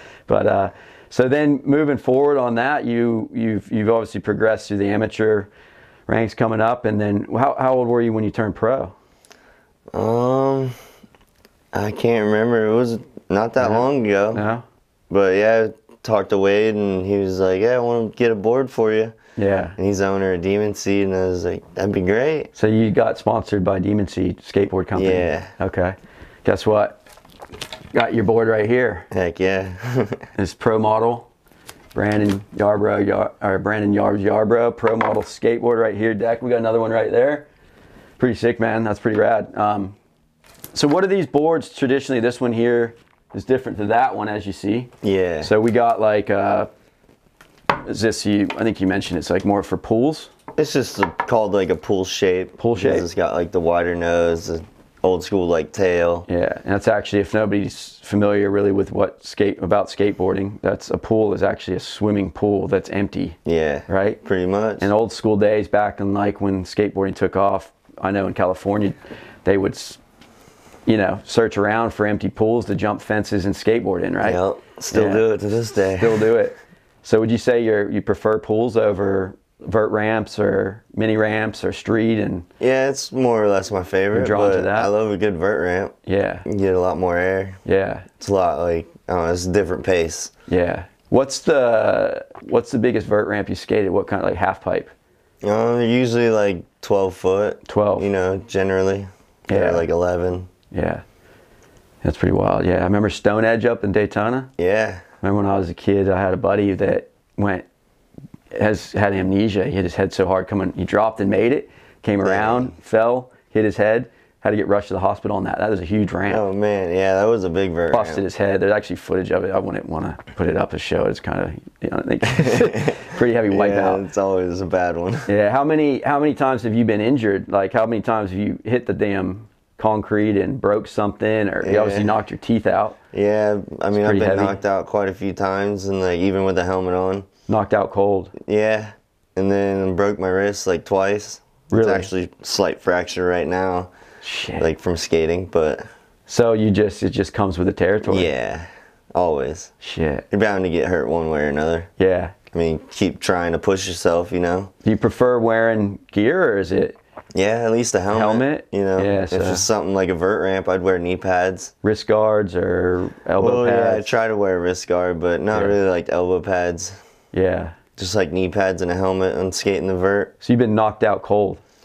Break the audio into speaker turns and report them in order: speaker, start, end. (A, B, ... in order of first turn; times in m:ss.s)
0:00.3-0:05.5 A
0:06.1-0:08.9 A
0:09.9-0:10.8 B
0:11.7-0:14.4 B
0:13.6-0:14.6 A
0:15.1-0:19.2 B
0:19.4-0:19.8 A
0:19.8-0:22.5 B
0:22.5-0:27.0 A
0:24.9-0:25.5 B
0:27.9-0:29.1 A
0:29.1-0:30.2 B
0:30.4-0:31.3 A
0:31.9-0:37.4 A
0:38.2-0:40.0 A
0:40.7-0:46.7 A
0:45.0-0:45.5 B
0:47.8-0:50.3 A
0:50.6-0:56.3 B
0:52.6-0:53.1 A
0:56.3-1:04.2 A
1:03.4-1:04.9 B
1:04.8-1:10.0 A
1:10.8-1:15.2 A
1:14.2-1:16.3 B
1:16.0-1:22.5 A
1:22.6-1:25.9 B
1:24.1-1:24.9 A
1:26.0-1:26.4 A
1:26.4-1:27.6 B
1:27.6-1:28.1 A
1:28.2-1:30.3 B
1:30.5-1:34.9 A
1:35.4-1:40.5 B
1:37.6-1:38.1 A
1:39.5-1:39.8 A
1:40.7-1:41.0 A
1:42.0-1:44.5 A
1:44.6-1:45.0 B
1:45.2-1:47.6 A
1:48.5-1:56.4 A
1:52.2-1:52.7 B
1:56.3-1:58.2 B
1:57.9-2:04.0 A
2:02.3-2:05.3 B
2:05.3-2:13.0 A
2:11.6-2:12.1 B
2:13.1-2:17.3 B
2:13.9-2:14.6 A
2:17.5-2:18.3 A
2:18.4-2:23.9 B
2:21.7-2:22.1 A
2:24.2-2:24.7 A
2:24.6-2:25.8 B
2:26.3-2:28.3 A
2:28.0-2:29.7 B
2:29.8-2:30.2 A
2:30.3-2:31.9 B
2:32.0-2:32.4 A
2:32.5-2:34.7 B
2:34.8-2:37.0 A
2:37.3-2:41.7 B
2:38.1-2:39.7 A
2:41.8-2:44.1 A
2:43.4-2:47.0 B
2:47.3-2:47.7 A
2:48.0-2:50.3 B
2:50.4-2:51.6 A